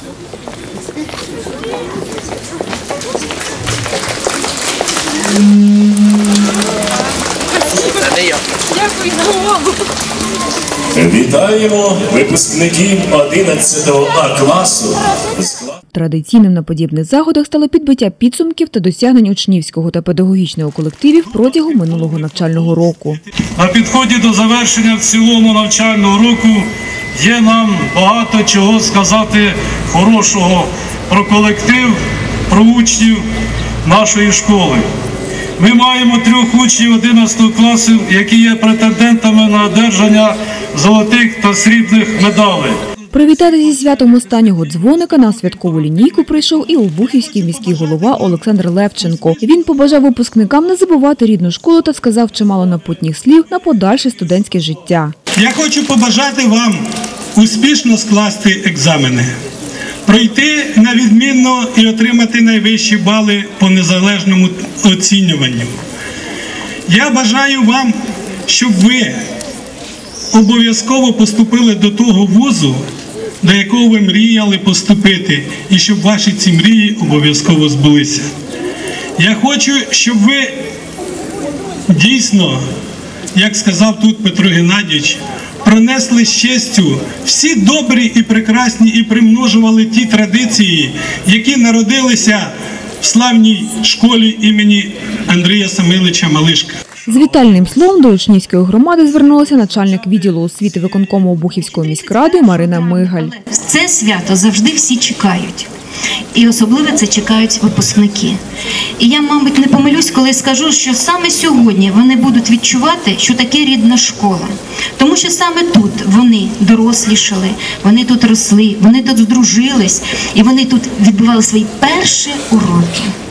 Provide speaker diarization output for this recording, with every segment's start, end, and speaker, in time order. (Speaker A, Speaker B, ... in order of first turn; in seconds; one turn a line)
Speaker A: 10.9-15.7
Speaker B: 15.9-23.2
Speaker C: 23.6-32.0
Speaker C: 32.5-33.2
Speaker C: 33.9-34.9
Speaker C: 35.6-42.8
Speaker B: 43.1-55.1
Speaker D: 55.4-56.8
Speaker D: 57.4-59.3
Speaker D: 60.1-65.8
Speaker D: 66.9-68.0
Speaker D: 68.5-69.2
Speaker D: 70.3-72.8
Speaker D: 73.4-78.3
Speaker D: 79.2-80.6
Speaker D: 81.9-82.6
Speaker D: 83.3-96.8
Speaker B: 97.1-103.3
Speaker E: 101.8-105.7
Speaker E: 106.3-108.4
Speaker E: 109.0-123.1